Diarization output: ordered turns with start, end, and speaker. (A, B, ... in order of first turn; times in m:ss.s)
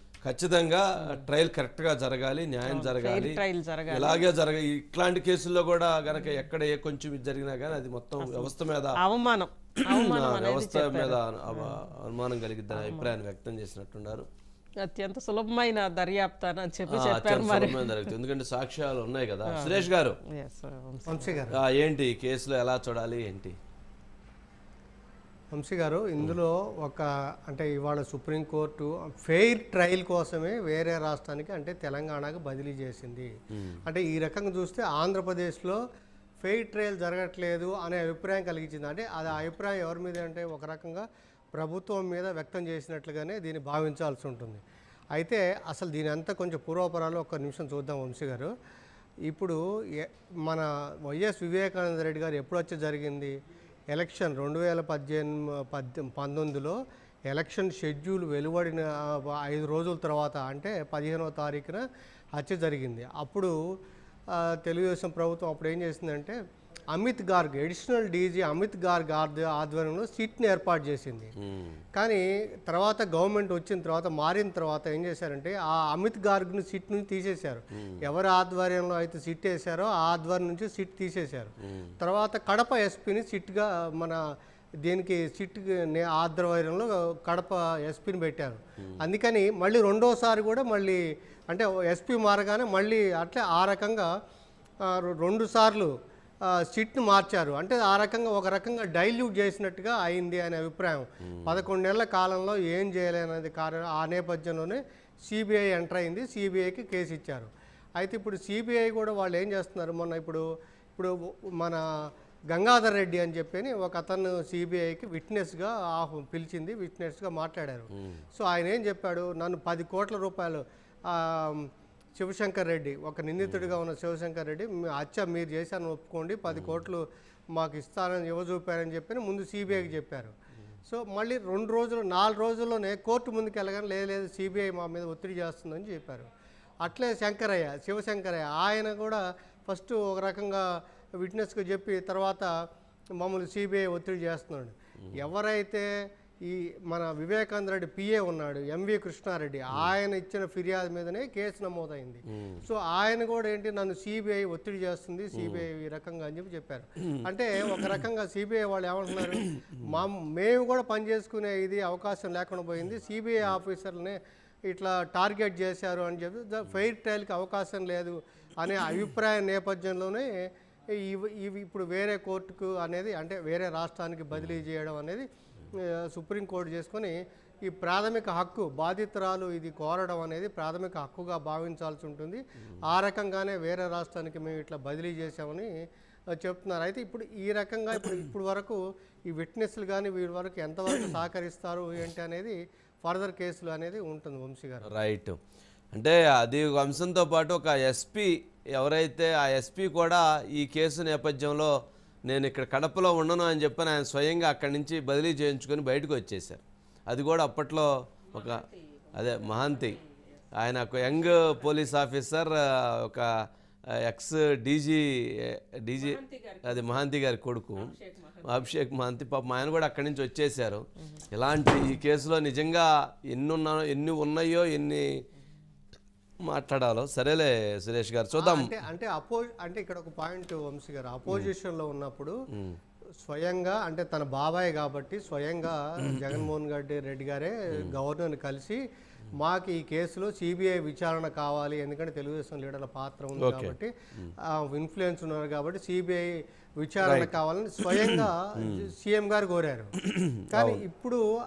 0:00.2-0:09.0 A
0:01.0-0:01.3 B
0:02.6-0:04.3 B
0:06.1-0:06.4 B
0:08.2-0:11.8 B
0:09.8-0:14.3 A
0:12.7-0:13.1 B
0:14.8-0:18.2 B
0:16.9-0:20.2 A
0:19.5-0:21.4 B
0:21.1-0:21.6 C
0:21.5-0:23.6 A
0:25.5-0:33.3 C
0:33.8-0:35.8 C
0:36.4-0:44.6 C
0:45.1-0:48.5 C
0:49.3-0:53.3 C
0:53.9-0:56.8 C
0:57.3-1:01.8 C
1:02.4-1:03.5 C
1:04.3-1:06.4 C
1:06.9-1:11.3 C
1:11.4-1:11.8 A
1:12.0-1:24.2 C
1:21.7-1:21.9 A
1:24.8-1:31.0 C
1:31.5-1:34.1 C
1:34.8-1:35.9 C
1:36.4-1:50.4 C
1:41.3-1:41.6 A
1:51.0-2:10.3 C
1:57.9-1:58.2 A
2:03.4-2:03.7 A
2:06.5-2:06.8 A
2:10.9-2:16.3 C
2:16.8-2:20.6 C
2:21.2-2:22.5 C
2:23.2-2:25.8 C
2:26.4-2:44.2 C
2:32.3-2:32.6 A
2:35.4-2:35.6 A
2:39.4-2:39.9 A
2:44.7-2:50.3 C
2:51.0-3:05.7 C
3:06.3-3:14.9 C
3:14.9-3:15.4 A
3:15.9-3:21.7 A
3:22.3-3:28.6 A
3:28.3-3:31.9 B
3:29.2-3:30.0 A
3:30.6-3:33.3 A
3:34.0-3:37.9 A
3:36.0-3:37.0 B
3:37.8-3:38.8 B
3:38.4-3:45.0 A
3:46.4-3:48.7 A
3:48.3-3:52.3 C
3:52.5-3:52.8 A
3:53.2-3:58.8 C
3:59.3-4:03.9 C
4:03.4-4:04.3 A
4:04.5-4:09.9 C
4:07.0-4:07.3 A
4:07.8-4:08.9 A
4:10.0-4:10.8 A
4:10.5-4:11.2 C